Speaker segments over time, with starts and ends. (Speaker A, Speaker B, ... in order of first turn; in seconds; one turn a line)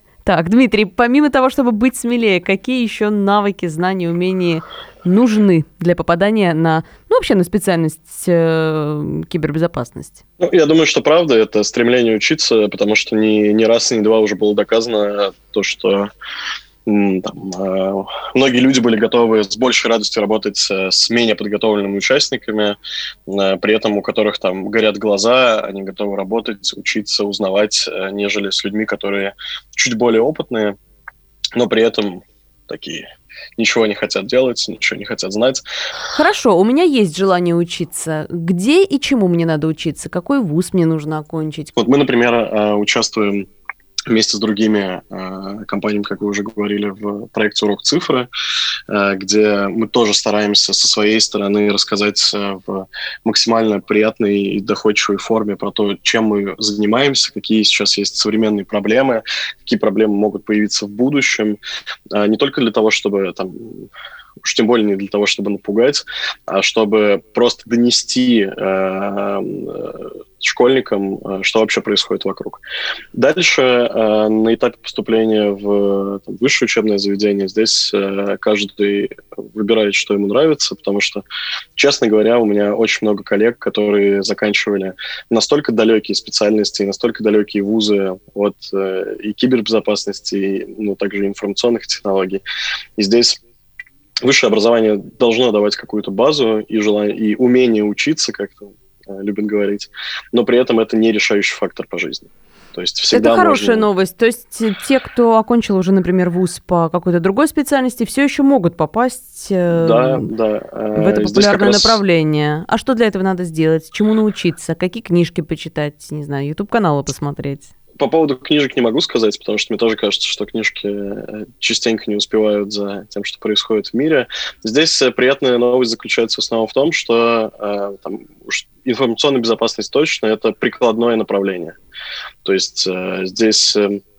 Speaker A: 0.2-10.2
Speaker B: 10.4-16.1
Speaker B: 16.9-30.8
Speaker B: 31.6-33.0
Speaker B: 33.6-35.6
Speaker A: 36.1-41.7
Speaker B: 41.8-43.5
Speaker B: 44.1-48.3
Speaker B: 48.9-61.6
Speaker B: 62.1-63.9
Speaker B: 64.4-72.6
Speaker B: 73.1-81.2
Speaker B: 81.8-92.4
Speaker B: 93.0-93.4
Speaker B: 94.2-103.9
Speaker A: 103.1-110.3
Speaker B: 109.7-112.0
Speaker A: 110.9-117.7
Speaker B: 118.0-131.8
Speaker B: 132.4-134.0